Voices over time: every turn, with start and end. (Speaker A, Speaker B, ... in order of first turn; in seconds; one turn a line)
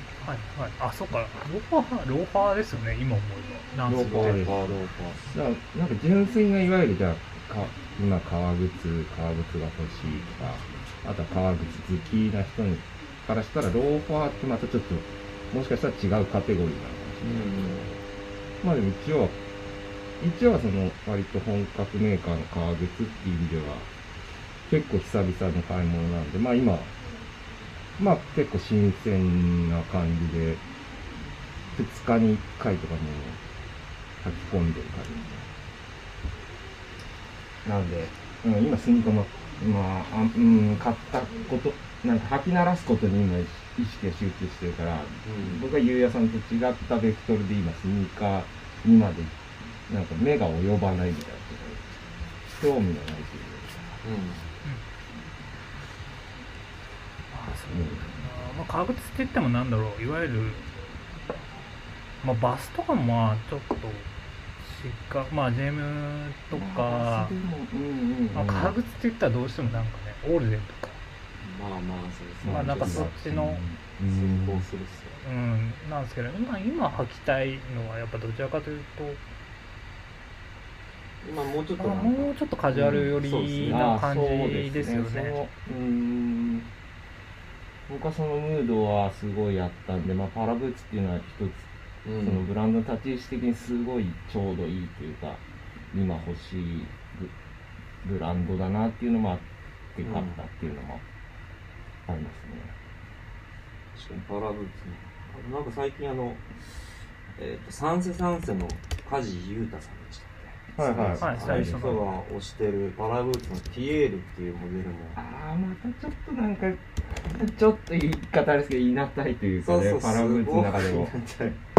Speaker A: 0.2-4.5
Speaker B: 3.9-18.0
Speaker C: 4.0-5.2
Speaker C: 17.2-17.9
Speaker B: 18.6-19.4
Speaker B: 20.2-23.9
Speaker B: 24.7-27.0
Speaker B: 28.0-30.6
Speaker B: 31.7-33.4
Speaker B: 34.2-35.5
Speaker B: 37.6-52.0
Speaker C: 45.2-45.7
Speaker B: 52.5-53.9
Speaker C: 54.0-54.5
Speaker A: 57.3-60.7
Speaker B: 57.6-58.3
Speaker A: 62.2-67.3
Speaker B: 66.5-68.8
Speaker A: 68.3-71.0
Speaker C: 71.4-73.1
Speaker B: 72.4-74.7
Speaker A: 72.5-73.6
Speaker C: 74.0-75.2
Speaker A: 75.2-79.2
Speaker C: 81.2-83.9
Speaker A: 81.8-85.4
Speaker B: 82.7-83.1
Speaker B: 83.6-86.7
Speaker B: 87.9-91.7
Speaker C: 92.0-92.5
Speaker B: 92.2-97.3
Speaker B: 98.0-101.0
Speaker C: 100.0-100.4
Speaker B: 102.1-102.8
Speaker C: 103.9-115.2
Speaker B: 110.8-112.2
Speaker A: 111.2-112.1
Speaker B: 115.2-121.1
Speaker C: 119.6-121.6